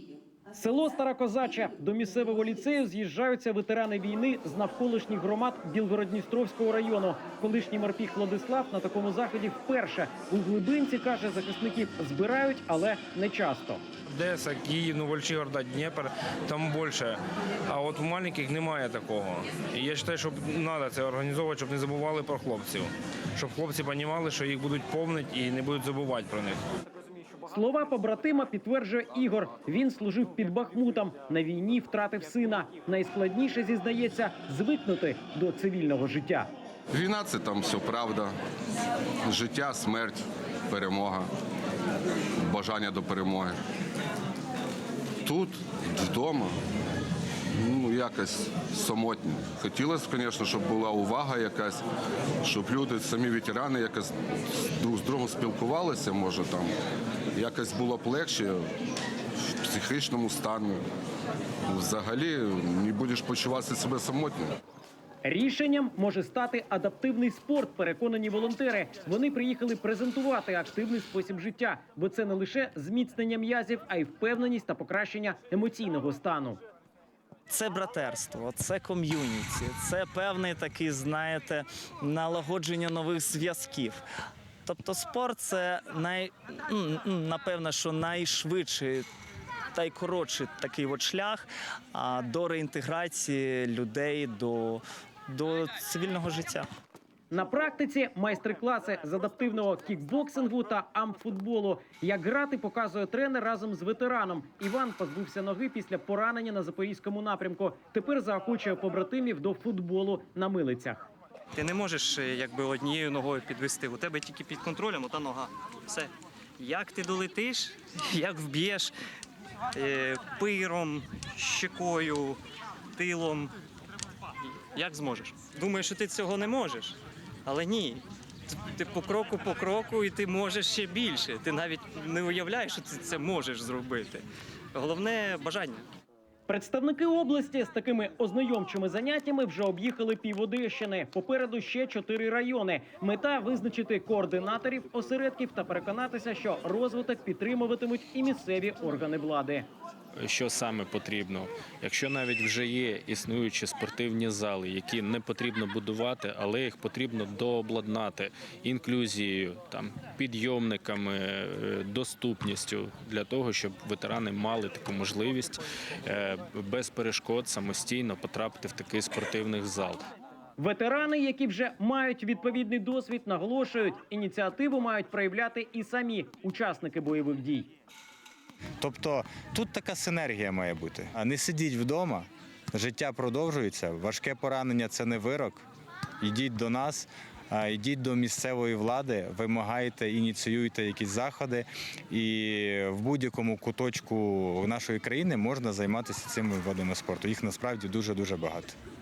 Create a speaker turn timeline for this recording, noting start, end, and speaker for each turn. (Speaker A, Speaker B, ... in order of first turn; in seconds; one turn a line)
Speaker A: 0.5-13.8
Speaker B: 14.1-26.6
Speaker A: 27.5-36.5
Speaker C: 36.9-38.3
Speaker C: 39.2-41.3
Speaker C: 42.4-43.6
Speaker C: 45.2-46.6
Speaker C: 47.5-51.8
Speaker C: 52.4-54.1
Speaker C: 54.8-56.7
Speaker C: 57.3-58.7
Speaker C: 59.6-60.8
Speaker C: 61.7-64.5
Speaker A: 65.2-76.6
Speaker D: 77.5-84.0
Speaker D: 84.6-89.0
Speaker D: 89.7-96.7
Speaker A: 97.3-111.1
Speaker E: 111.5-118.9
Speaker E: 119.7-122.4
Speaker E: 122.9-123.5
Speaker E: 124.7-128.0
Speaker E: 128.7-135.9
Speaker A: 136.5-149.7
Speaker F: 150.2-170.0
Speaker A: 170.6-177.7
Speaker G: 178.8-185.6
Speaker G: 186.2-198.8